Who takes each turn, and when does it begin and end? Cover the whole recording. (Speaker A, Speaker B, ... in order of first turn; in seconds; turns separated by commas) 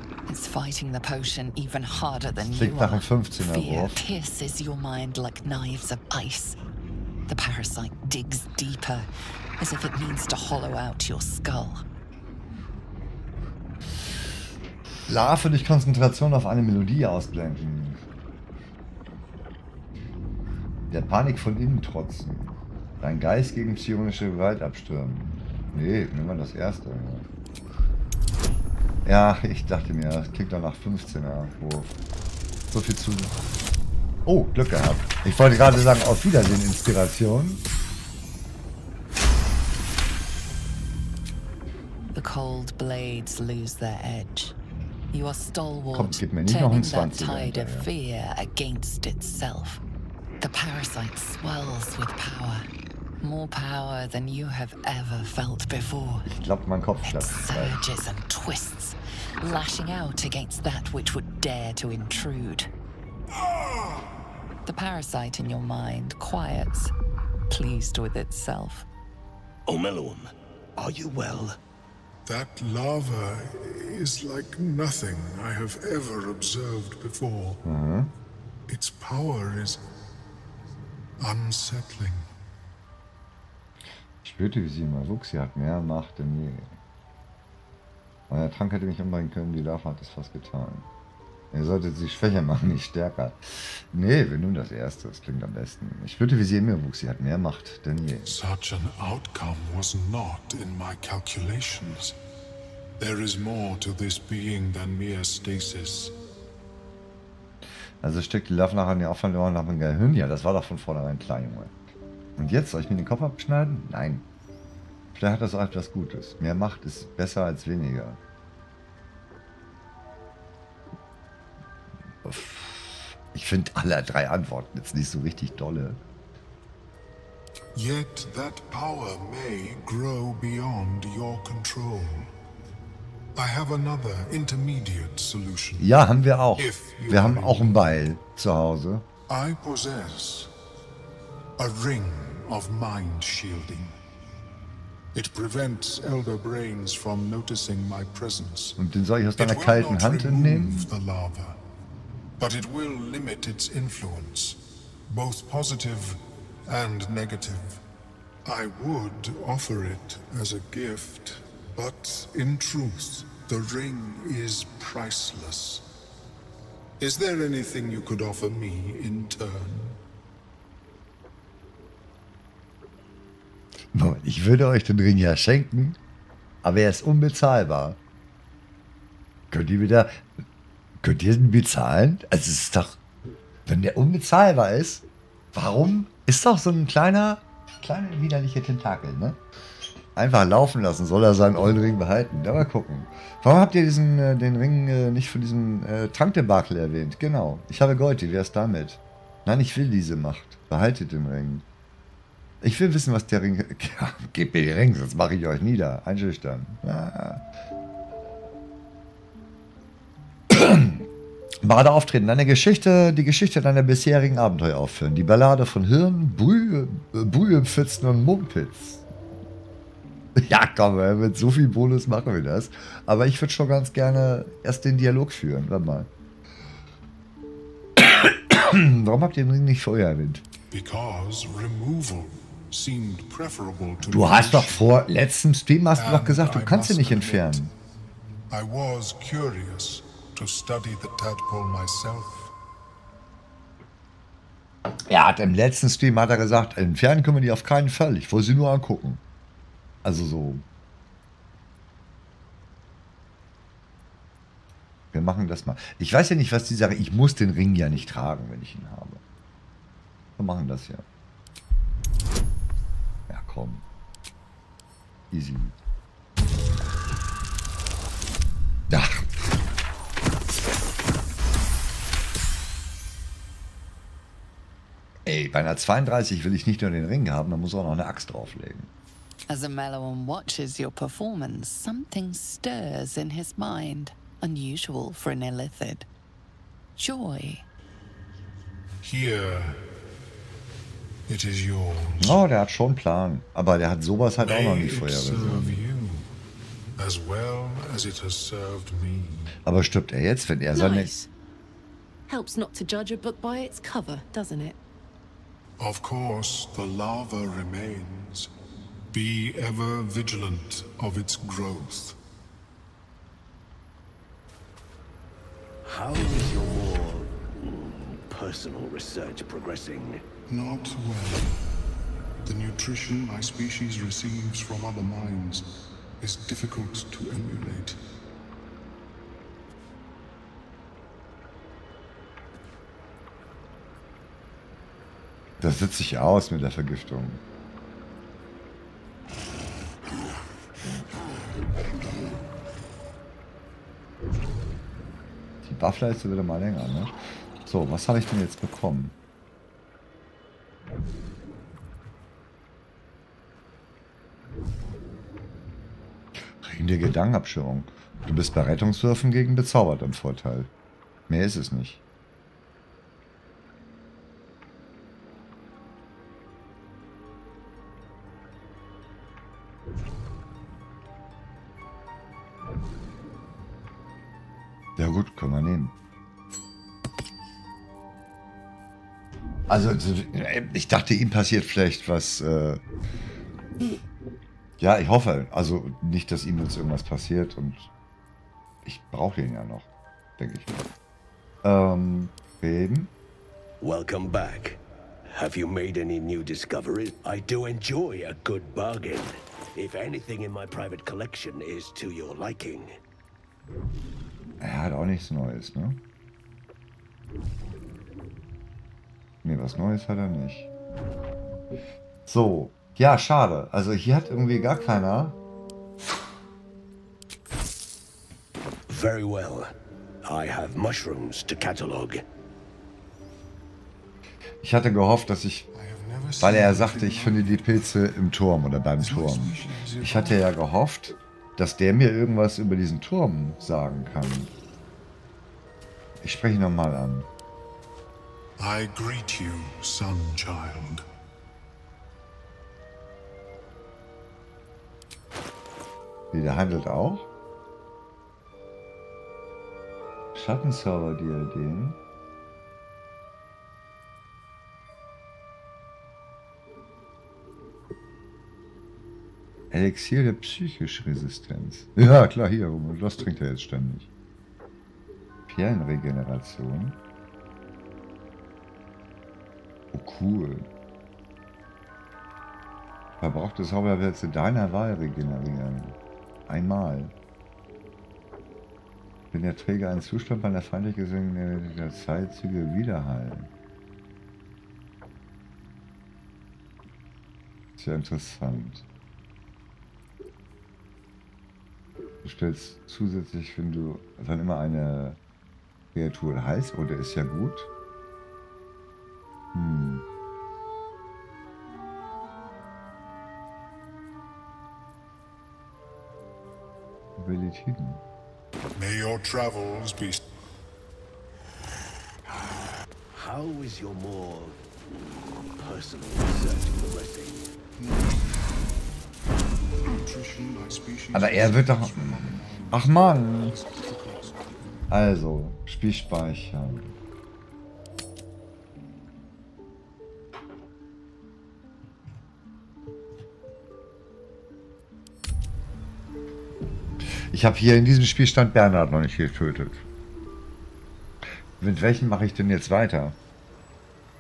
Speaker A: 0.3-6.6, Speaker B: 2.5-4.0, Speaker A: 7.3-9.1, Speaker A: 9.6-11.8, Speaker B: 15.1-18.0, Speaker B: 20.9-27.3, Speaker B: 29.1-31.9, Speaker B: 32.7-33.4, Speaker B: 34.3-37.6, Speaker A: 42.1-44.5, Speaker A: 45.1-49.8, Speaker B: 45.9-47.9, Speaker A: 50.4-52.7, Speaker A: 53.2-56.3, Speaker B: 56.3-57.9, Speaker A: 57.0-62.7, Speaker C: 63.4-64.1, Speaker A: 64.7-66.9, Speaker A: 67.5-68.9, Speaker D: 69.7-71.6, Speaker C: 72.3-77.6, Speaker B: 77.6-78.1, Speaker C: 78.7-79.8, Speaker C: 81.2-82.3, Speaker B: 84.2-86.8, Speaker B: 88.3-90.9, Speaker B: 91.5-98.4, Speaker C: 98.3-102.2, Speaker C: 103.0-106.2, Speaker B: 108.0-111.7, Speaker B: 112.4-114.2, Speaker B: 115.2-118.2, Speaker B: 122.2-126.0, Speaker C: 127.7-132.3, Speaker C: 133.3-135.9, Speaker B: 135.8-139.1, Speaker C: 136.6-137.8, Speaker C: 139.3-140.5, Speaker C: 141.6-143.9, Speaker C: 145.1-148.8, Speaker B: 148.8-150.9, Speaker C: 149.4-151.6, Speaker C: 152.4-157.8, Speaker C: 158.4-165.9, Speaker C: 167.0-170.0, Speaker B: 173.9-176.0, Speaker B: 176.6-178.0, Speaker B: 179.5-180.2, Speaker B: 181.0-183.0, Speaker B: 183.7-189.4, Speaker B: 190.2-201.7, Speaker B: 202.6-207.4, Speaker B: 210.5-211.1, Speaker B: 211.6-219.1, Speaker B: 220.4-226.1, Speaker B: 228.0-230.4, Speaker C: 230.7-234.8, Speaker B: 234.1-237.7, Speaker C: 235.9-237.7, Speaker C: 238.5-242.5, Speaker B: 245.1-249.2, Speaker B: 250.0-250.7, Speaker B: 255.1-259.2, Speaker B: 260.4-261.1, Speaker B: 263.3-263.8, Speaker B: 265.3-265.8, Speaker B: 268.9-269.2, Speaker B: 275.3-278.9, Speaker A: 279.5-286.1, Speaker A: 287.0-287.6, Speaker C: 289.0-289.9, Speaker C: 291.3-292.4, Speaker B: 292.2-295.8, Speaker C: 294.4-296.3, Speaker C: 297.0-299.5, Speaker B: 299.6-301.1, Speaker E: 300.7-301.3, Speaker E: 302.3-304.8, Speaker C: 305.8-308.5, Speaker C: 309.1-312.2, Speaker D: 315.9-320.2, Speaker C: 320.5-321.5, Speaker C: 322.4-328.0, Speaker B: 335.6-337.4, Speaker B: 345.6-349.1, Speaker B: 356.6-360.7, Speaker B: 361.3-362.0, Speaker B: 375.0-375.9, Speaker B: 379.7-382.8, Speaker B: 384.8-387.9, Speaker B: 388.9-389.9, Speaker B: 390.4-390.9, Speaker B: 391.6-393.1, Speaker D: 393.8-403.0, Speaker B: 404.6-406.0, Speaker B: 409.4-410.7, Speaker B: 412.3-415.4, Speaker D: 418.9-419.7, Speaker D: 420.2-422.2, Speaker B: 424.6-425.7, Speaker C: 425.7-428.0, Speaker B: 426.4-434.5, Speaker C: 429.0-430.5, Speaker B: 436.2-437.3, Speaker C: 438.6-441.0, Speaker B: 446.3-447.3, Speaker B: 450.4-452.0, Speaker B: 459.7-464.1, Speaker B: 465.5-467.0, Speaker B: 469.9-470.7, Speaker B: 473.2-476.0, Speaker B: 476.5-477.1, Speaker B: 479.3-483.5, Speaker B: 487.8-488.9, Speaker B: 492.2-495.2, Speaker B: 495.9-497.7, Speaker B: 499.5-500.0, Speaker B: 507.2-508.0, Speaker C: 508.8-510.2, Speaker D: 513.1-514.6, Speaker D: 515.6-517.5, Speaker C: 517.8-518.4, Speaker C: 519.8-524.6, Speaker B: 521.1-523.5, Speaker B: 524.9-527.0, Speaker B: 537.3-539.8, Speaker B: 541.6-543.2